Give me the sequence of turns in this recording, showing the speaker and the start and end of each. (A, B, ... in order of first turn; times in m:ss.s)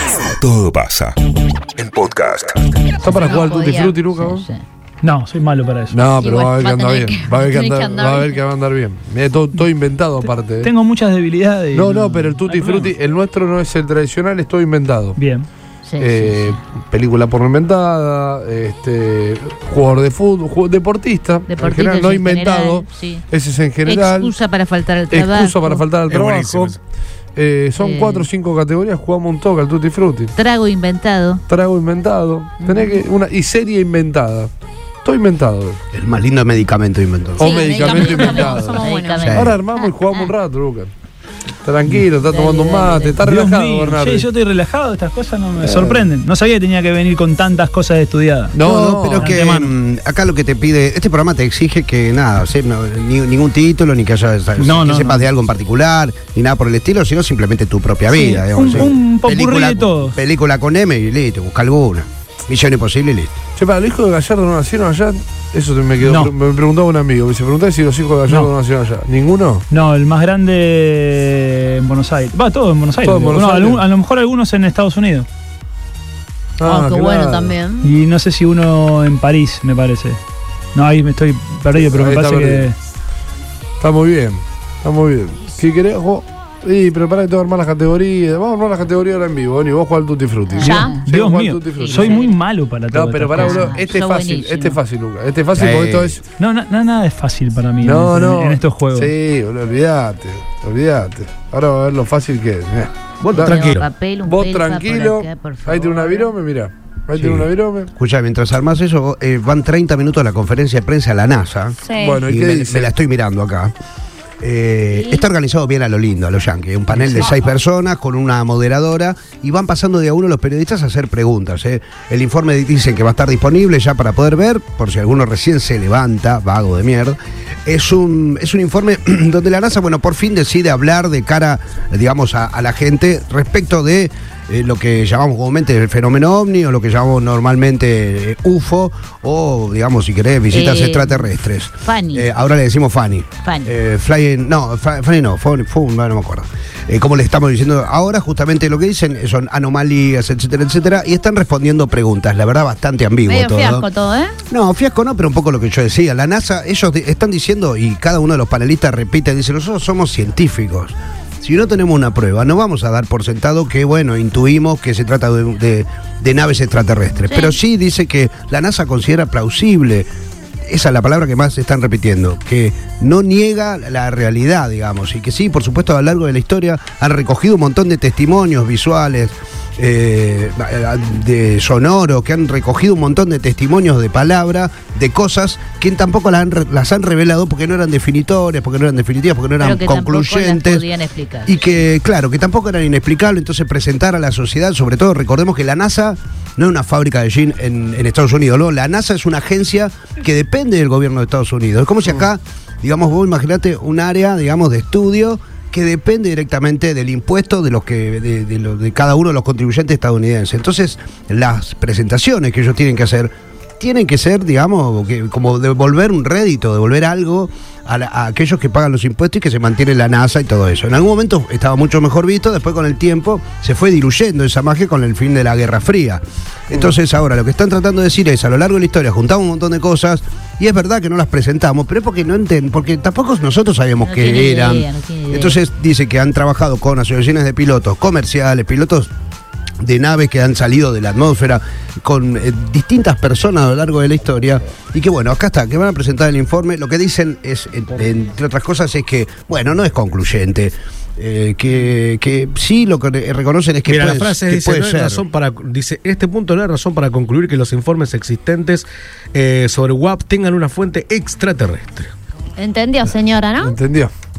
0:00.2-0:01.2 A
0:01.8-0:02.8 A
0:03.0-0:04.5 B
0:03.1-0:04.0 C
0:04.2-0:04.6 D
0:05.0-0:06.0 E
0:05.9-0:10.7 B
0:06.1-0:08.4 C
0:10.6-0:13.0 E
0:11.7-0:15.2 B
0:15.2-0:15.5 E
0:15.8-0:16.6 D
0:16.0-0:24.3 B
0:21.5-0:23.2 D
0:23.8-0:25.8 D
0:25.1-0:26.8 B
0:26.1-0:26.8 F
0:27.4-0:30.3 B
0:27.8-0:28.3 D
0:30.4-0:31.4 D
0:31.5-0:34.5 B
0:32.6-0:33.0 D
0:35.0-0:35.8 B
0:35.9-0:38.0 G
0:37.4-0:38.8 B
0:37.4-0:39.4 C
0:38.3-0:40.3 D
0:39.2-0:39.5 G
0:39.3-0:40.9 B
0:41.6-0:44.3 B
0:42.2-0:43.2 D
0:43.2-0:49.7 E
0:45.6-0:46.1 B
0:48.5-0:49.4 B
0:48.6-1:03.4 G
0:54.6-0:55.3 E
0:58.1-1:00.2 E
1:03.6-1:09.7 B
1:06.0-1:06.3 E
1:08.3-1:08.5 E
1:09.7-1:15.3 E
1:13.0-1:13.8 B
1:16.6-1:17.6 B
1:16.6-1:17.9 C
1:17.8-1:20.2 E
1:20.7-1:22.8 E
1:21.8-1:22.7 B
1:23.8-1:32.2 B
1:30.5-1:31.0 D
1:30.6-1:31.0 C
1:30.7-1:33.8 E
1:31.7-1:32.3 D
1:32.9-1:36.2 B
1:33.3-1:34.8 D
1:35.5-1:36.2 G
1:36.4-1:39.1 E
1:37.8-1:43.6 B
1:43.2-1:43.9 F
1:43.4-1:46.3 D
1:44.2-1:47.9 B
1:47.1-1:53.7 G
1:51.8-1:52.2 C
1:52.0-1:52.9 B
1:54.4-2:33.9 G
2:20.5-2:21.3 D
2:21.8-2:22.3 D
2:23.4-2:23.7 D
2:33.3-2:34.4 C
2:34.5-2:50.1 G
2:47.3-2:47.6 D
2:50.7-3:10.9 G
3:09.6-3:11.8 D
3:11.5-3:59.1 G
3:54.0-3:55.6 D
3:59.8-4:15.2 G
4:13.9-4:22.1 F
4:22.6-4:23.8 C
4:23.6-4:24.1 B